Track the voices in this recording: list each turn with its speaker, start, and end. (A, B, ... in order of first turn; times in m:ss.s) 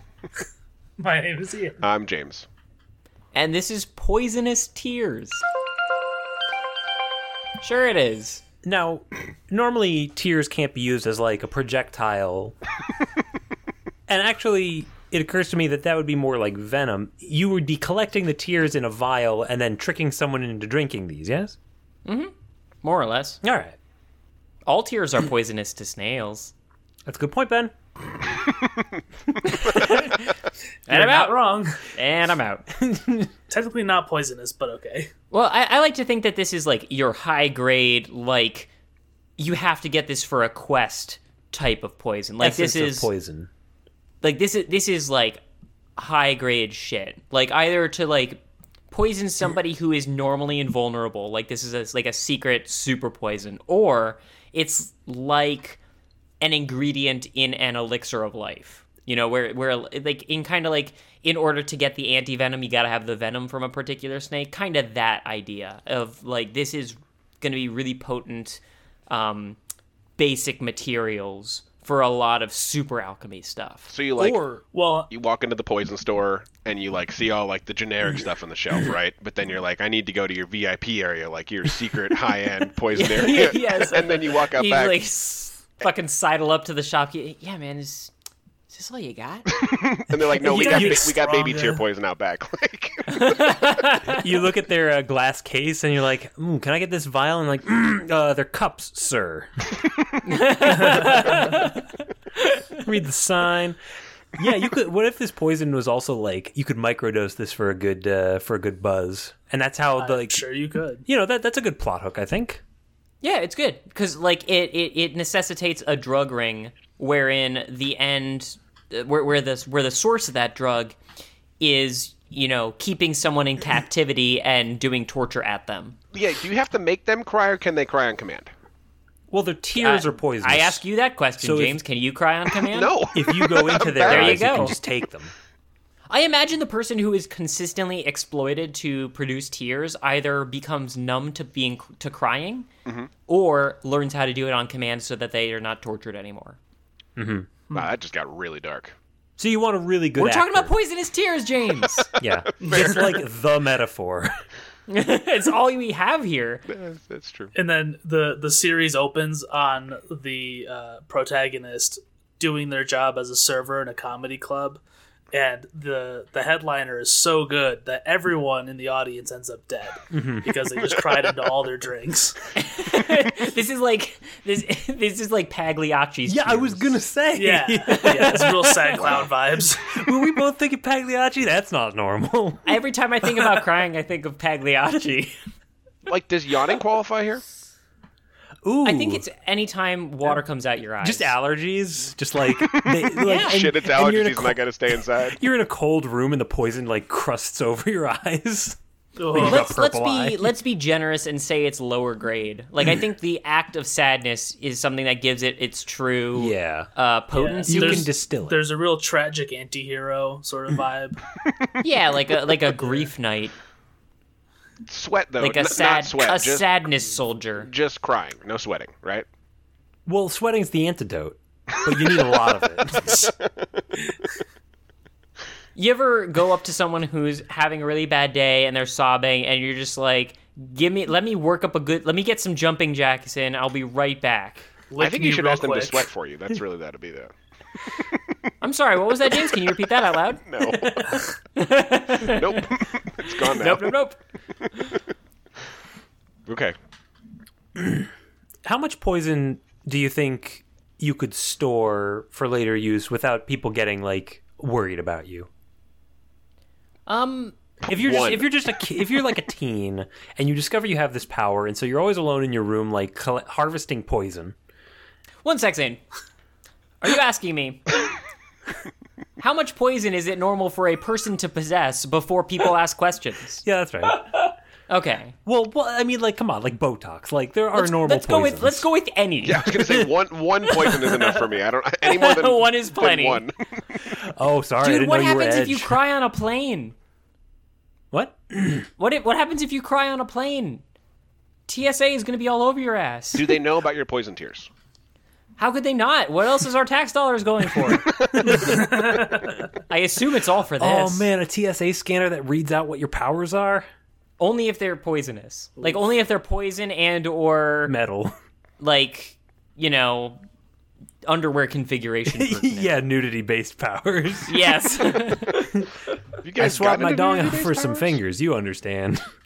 0:01.0-0:01.8 A
0:01.8-0:02.5 B
0:03.3-0:05.4 C
0:07.6-0:08.4 C
0:08.6-0:12.5 D
0:14.1-0:21.6 D
0:22.0-0:22.3 C
0:22.8-0:23.4 C
0:23.4-0:23.8 D
0:24.6-0:26.5 C
0:27.0-0:27.7 D
0:29.4-0:30.4 C
0:30.9-0:31.8 A
0:30.9-0:32.7 C
0:32.8-0:33.3 D
0:33.5-0:35.1 A
0:35.3-0:38.7 C
0:39.4-0:43.1 C
0:42.4-0:43.5 D
0:44.2-0:45.4 C
0:46.0-0:55.8 C
0:56.4-1:09.6 C
1:10.2-1:13.9 C
1:13.9-1:14.4 B
1:14.2-1:14.6 D
1:14.7-1:15.1 A
1:15.1-1:25.0 B
1:22.9-1:28.1 C
1:28.7-1:29.6 C
1:29.6-1:33.6 B
1:30.4-1:31.8 A
1:30.6-1:31.2 D
1:33.1-1:34.2 C
1:34.0-1:39.5 D
1:40.2-1:42.8 C
1:42.8-1:43.8 D
1:44.4-1:50.4 D
1:50.0-1:51.0 A
1:51.1-1:52.6 D
1:53.2-2:01.0 C
2:01.6-2:06.0 C
2:06.1-2:08.5 B
2:09.3-2:10.8 D
2:09.7-2:13.0 C
2:11.4-2:11.8 D
2:12.7-2:14.6 B
2:13.1-2:15.3 D
2:14.0-2:14.7 C
2:16.1-2:22.7 C
2:23.3-2:26.6 C
2:27.2-2:27.5 D
2:27.7-2:29.0 B
2:29.4-2:30.7 D
2:30.1-2:32.1 C
2:32.2-2:34.3 D
2:32.5-2:33.0 B
2:32.6-2:33.1 A
2:34.9-2:36.6 C
2:36.7-2:37.5 B
2:37.5-2:44.8 A
2:45.3-2:52.4 A
2:50.1-2:50.5 D
2:52.6-2:57.0 C
2:56.3-2:59.2 D
2:57.3-3:00.0 A
2:58.9-2:59.3 B
2:59.9-3:02.8 D
3:02.6-3:05.3 C
3:06.0-3:07.4 B
3:08.6-3:09.2 D
3:08.8-3:11.3 C
3:11.0-3:18.8 D
3:12.6-3:15.4 B
3:13.2-3:13.6 C
3:19.2-3:19.7 A
3:19.3-3:20.5 D
3:19.4-3:28.1 C
3:26.3-3:26.9 D
3:27.3-3:31.2 A
3:27.7-3:28.6 D
3:31.8-3:33.5 C
3:32.8-3:33.1 A
3:34.9-3:36.7 B
3:35.4-3:37.7 C
3:37.6-3:39.2 B
3:40.1-3:43.3 D
3:43.2-3:43.8 B
3:45.7-3:54.7 C
3:54.9-3:56.0 A
3:55.0-3:57.3 B
3:58.6-4:02.7 C
4:00.4-4:01.2 B
4:02.2-4:04.0 B
4:03.4-4:04.2 C
4:04.7-4:05.0 C
4:06.5-4:06.7 B
4:07.8-4:08.1 D
4:08.6-4:15.5 D
4:17.1-4:17.6 C
4:17.9-4:24.5 D
4:17.9-4:18.6 B
4:25.4-4:26.0 C
4:27.0-4:28.0 C
4:29.4-4:33.6 C
4:33.6-4:34.3 D
4:34.9-4:35.3 C
4:35.4-4:38.9 D
4:37.7-4:39.8 C
4:39.4-4:43.6 B
4:39.7-4:40.0 D
4:40.8-4:41.4 C
4:42.0-4:43.4 C
4:44.0-4:46.0 D
4:44.8-4:46.9 C
4:48.1-4:48.9 D
4:49.0-4:50.8 C
4:51.7-4:53.5 C
4:53.3-4:54.7 B
4:55.6-4:58.1 C
4:58.0-4:58.5 B
4:58.3-4:59.5 D
4:58.6-4:59.3 A
4:59.9-5:01.3 C
5:00.8-5:03.9 D
5:04.4-5:07.9 C
5:07.9-5:08.3 D
5:08.8-5:10.4 C
5:11.2-5:12.9 C
5:12.3-5:14.7 D
5:14.5-5:15.6 C
5:15.4-5:15.9 D
5:16.4-5:18.2 B
5:16.6-5:19.2 D